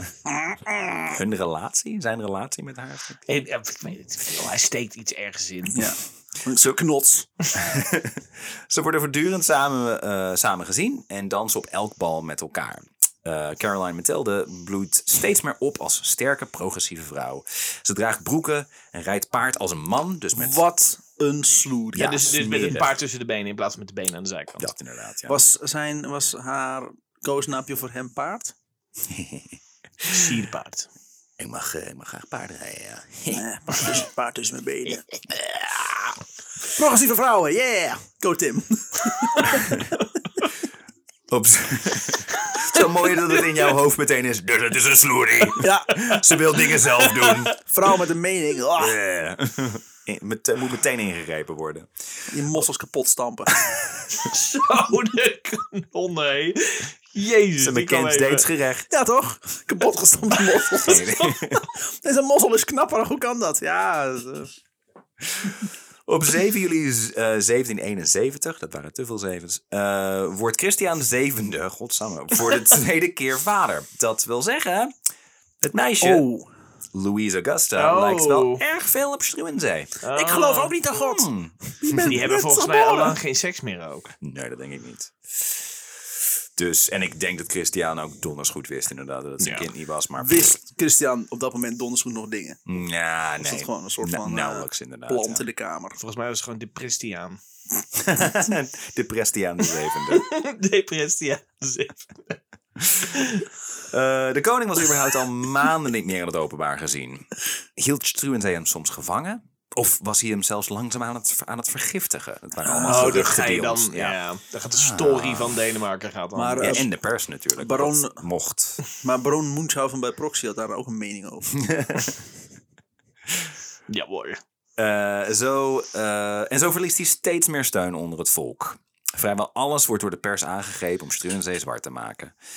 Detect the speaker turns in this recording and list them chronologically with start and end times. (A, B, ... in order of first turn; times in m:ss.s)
0:00.4-0:01.1 A
0:01.0-0:03.2 B
0:03.3-0:05.8 C
0:05.7-0:07.3 A
0:07.5-0:20.6 B
0:20.3-0:22.4 A
0:21.9-0:23.0 B
0:22.0-0:24.7 C
0:24.6-0:25.4 B
0:25.3-0:28.5 A
0:29.0-0:29.6 B
0:30.0-0:30.9 C
0:31.4-0:34.0 B
0:33.3-0:35.1 A
0:36.7-0:39.8 A
0:41.3-0:47.5 B
0:45.6-0:46.2 A
0:46.8-0:47.5 C
0:47.6-0:49.0 A
0:48.8-0:51.9 B
0:52.3-0:53.5 A
0:53.6-0:54.2 B
0:54.1-0:58.5 C
0:57.6-0:58.9 B
0:58.9-1:04.5 A
1:00.8-1:01.7 B
1:05.3-1:05.6 B
1:06.1-1:14.9 B
1:15.6-1:16.3 B
1:16.0-1:16.5 A
1:16.9-1:19.9 B
1:17.8-1:18.6 C
1:20.0-1:20.8 C
1:20.1-1:23.2 A
1:20.9-1:22.1 B
1:22.0-1:24.1 C
1:24.2-1:25.1 B
1:26.6-1:30.6 B
1:29.4-1:29.7 C
1:30.2-1:32.6 A
1:32.7-1:35.4 B
1:33.4-1:36.0 A
1:36.0-1:37.4 C
1:37.9-1:40.3 B
1:40.1-1:42.4 C
1:42.8-1:43.1 B
1:43.0-1:43.4 C
1:43.9-1:54.2 B
1:52.6-1:53.3 A
1:52.8-1:56.8 C
1:54.7-1:55.6 B
1:56.3-1:56.9 A
1:56.6-1:58.8 B
1:57.6-1:58.2 A
1:59.0-2:01.5 A
2:01.6-2:02.2 B
2:03.9-2:04.4 C
2:04.8-2:12.3 B